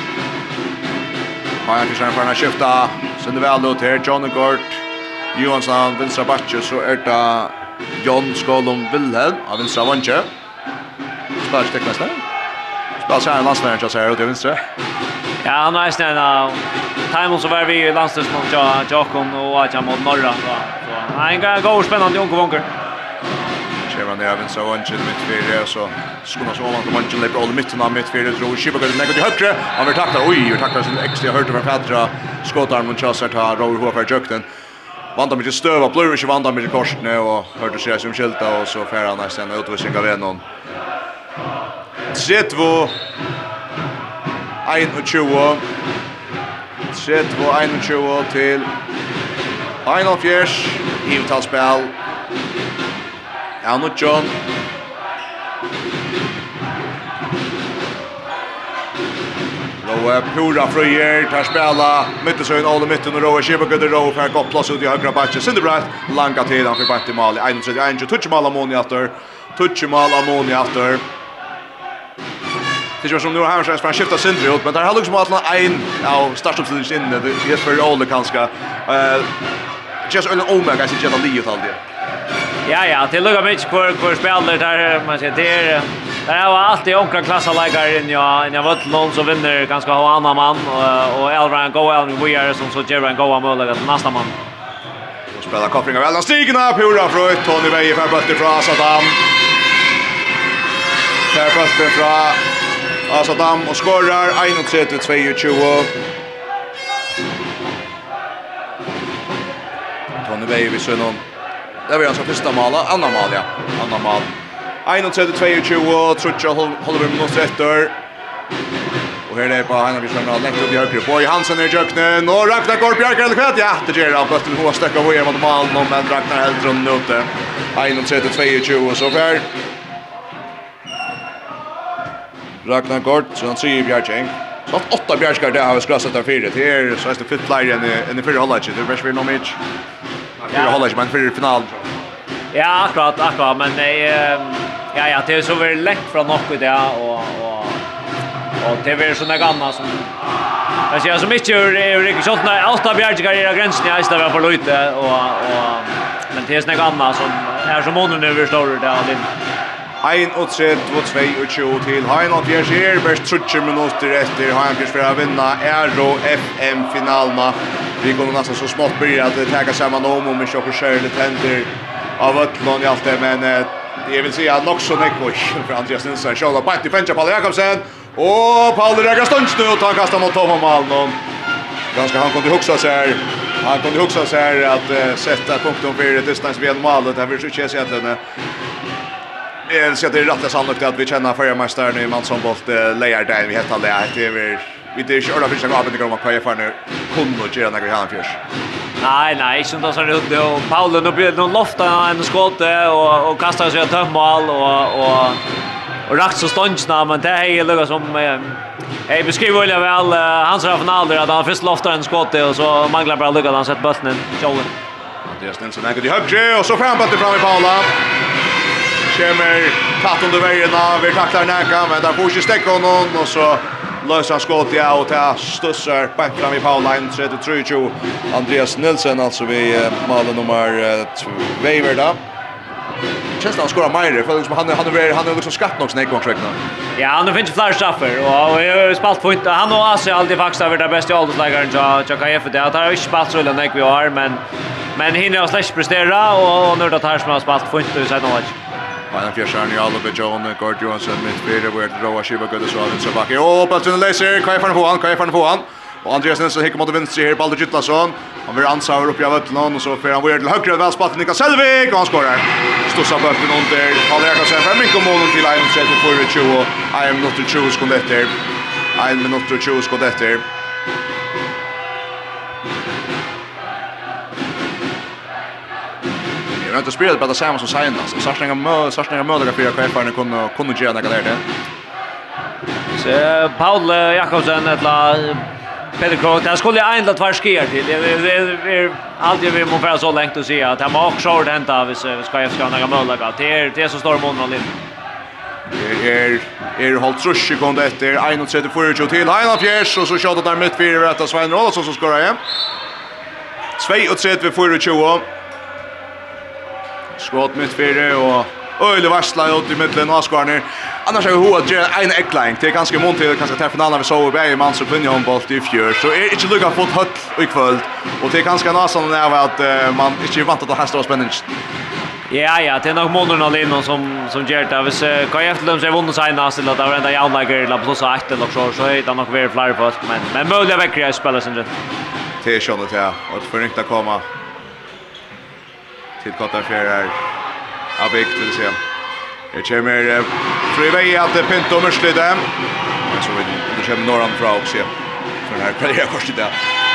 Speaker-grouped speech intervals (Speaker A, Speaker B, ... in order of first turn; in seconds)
Speaker A: 1.6-4.8, 5.3-10.3, 11.4-12.2, 13.0-14.6, 23.9-34.5, 35.1-40.4, 42.1-43.0, 44.6-45.6, 46.9-48.7, 49.8-52.0, 53.6-54.3, 59.8-71.0, 73.0-79.3, 80.1-81.8, 95.3-99.2, 101.3-102.4, 103.1-105.9, 110.2-111.2, 111.9-114.3, 114.8-118.0, 119.3-129.5, 132.6-139.6, 140.4-141.8, 160.0-181.2, 181.9-188.2, 189.7-198.4, 215.3-217.9, 219.1-232.2, 233.4-236.6, 249.1-268.3, 269.0-270.4, 276.6-281.4, 295.7-302.4, 303.8-305.3, 307.2-321.5, 332.4-334.2, 336.2-337.2, 338.0-338.8, 339.5-342.5, 343.1-344.9, 345.4-346.5
Speaker B: 15.4-22.7, 82.7-94.4, 142.5-147.8, 148.6-150.1, 150.9-159.3, 199.0-205.4, 206.1-214.7, 237.0-244.4, 244.9-248.6, 283.0-285.4, 286.0-294.7, 322.3-331.7